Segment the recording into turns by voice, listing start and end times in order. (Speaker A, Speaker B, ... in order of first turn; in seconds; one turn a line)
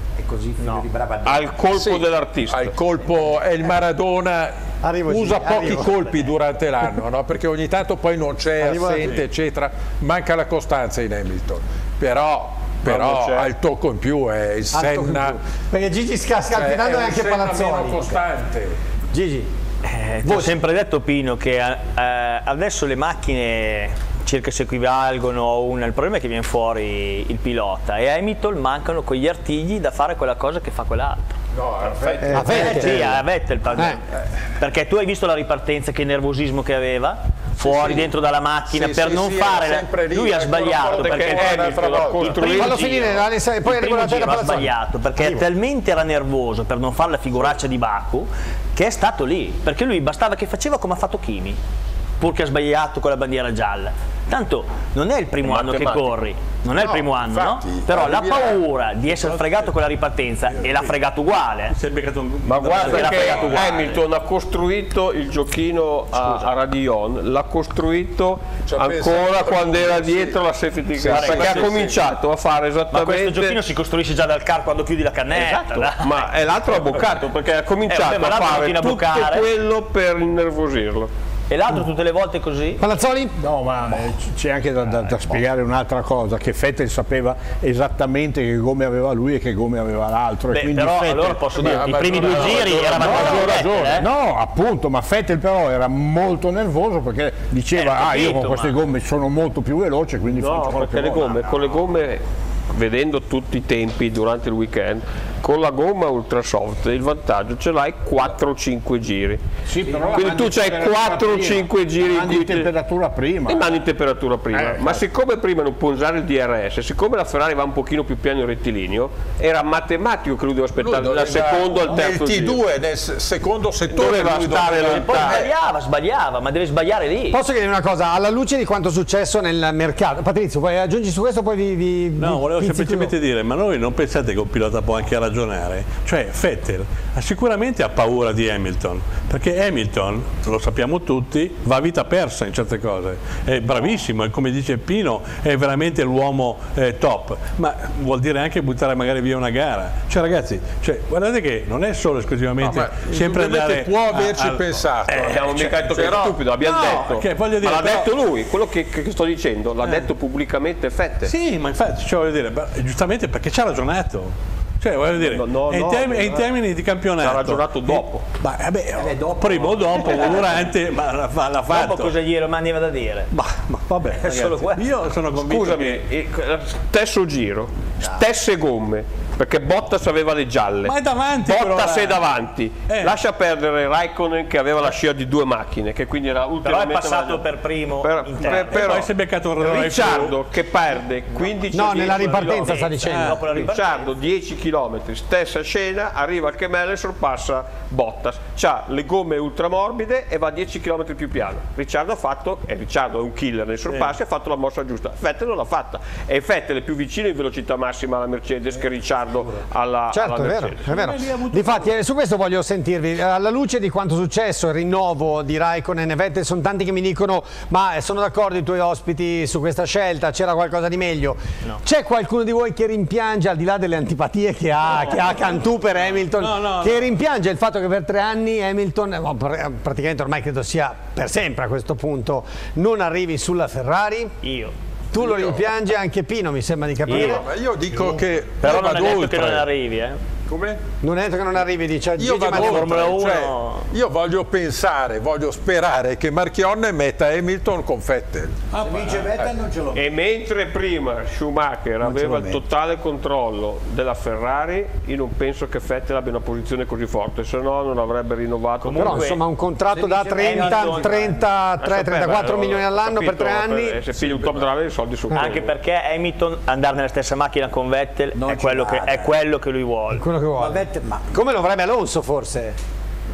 Speaker A: 0.2-1.6
Speaker B: 1.2-2.8
Speaker C: 1.7-4.5
Speaker D: 4.8-6.2
Speaker C: 5.1-15.4
Speaker D: 8.6-9.2
Speaker A: 8.6-9.1
Speaker B: 12.8-13.5
Speaker D: 14.7-18.2
Speaker C: 16.5-18.8
Speaker D: 19.1-19.5
Speaker E: 19.8-31.4
Speaker D: 20.2-20.6
Speaker C: 31.5-32.7
Speaker E: 32.0-34.0
Speaker D: 32.3-33.2
Speaker D: 33.7-34.0
Speaker E: 34.6-51.6
Speaker C: 37.6-38.1
Speaker C: 38.7-42.5
Speaker B: 40.8-42.8
Speaker D: 42.4-45.5
Speaker E: 52.2-61.8
Speaker B: 55.5-56.2
Speaker C: 56.7-58.6
Speaker F: 60.6-60.9
Speaker F: 61.7-63.9
Speaker B: 62.5-73.6
Speaker E: 62.7-64.0
Speaker E: 66.2-66.5
Speaker C: 68.7-70.4
Speaker E: 71.0-71.9
Speaker C: 71.0-72.0
Speaker E: 72.9-76.3
Speaker B: 75.4-81.1
Speaker E: 77.9-79.5
Speaker E: 81.5-82.8
Speaker D: 82.8-83.4
Speaker G: 83.4-92.3
Speaker E: 90.5-94.1
Speaker C: 91.6-94.0
Speaker G: 92.8-101.5
Speaker E: 97.8-98.8
Speaker B: 100.3-109.4
Speaker G: 109.7-113.8
Speaker B: 110.0-112.7
Speaker B: 113.5-122.6
Speaker G: 114.5-115.0
Speaker C: 120.8-125.5
Speaker B: 123.9-125.4
Speaker E: 124.8-127.4
Speaker D: 127.3-133.1
Speaker F: 132.2-158.1
Speaker C: 152.6-156.3
Speaker B: 155.1-161.3
Speaker F: 159.8-160.1
Speaker F: 161.2-172.2
Speaker B: 165.2-166.5
Speaker B: 167.2-168.3
Speaker A: 169.0-170.7
Speaker E: 169.9-170.5
Speaker E: 171.7-173.3
Speaker F: 173.3-176.0
Speaker E: 174.2-174.8
Speaker B: 175.4-187.5
Speaker F: 180.8-182.3
Speaker F: 182.9-183.2
Speaker E: 186.6-189.0
Speaker B: 188.0-210.9
Speaker F: 188.4-190.4
Speaker D: 191.7-193.4
Speaker E: 191.9-194.1
Speaker F: 203.9-204.2
Speaker D: 210.1-234.3
Speaker F: 210.9-211.9
Speaker F: 226.3-227.1
Speaker E: 234.4-234.7
Speaker D: 235.1-237.5
Speaker C: 235.2-235.7
Speaker C: 237.1-239.7
Speaker E: 237.1-237.4
Speaker E: 238.6-240.2
Speaker C: 240.5-240.8
Speaker D: 241.0-243.2
Speaker C: 242.2-248.6
Speaker E: 242.5-243.9
Speaker A: 248.7-250.1
Speaker B: 249.9-259.4
Speaker A: 252.0-252.6
Speaker E: 258.8-261.4
Speaker D: 259.0-264.0
Speaker A: 260.4-261.1
Speaker B: 261.8-265.7
Speaker C: 264.3-264.5
Speaker E: 265.3-270.2
Speaker A: 268.3-269.3
Speaker D: 270.1-272.8
Speaker A: 270.6-271.3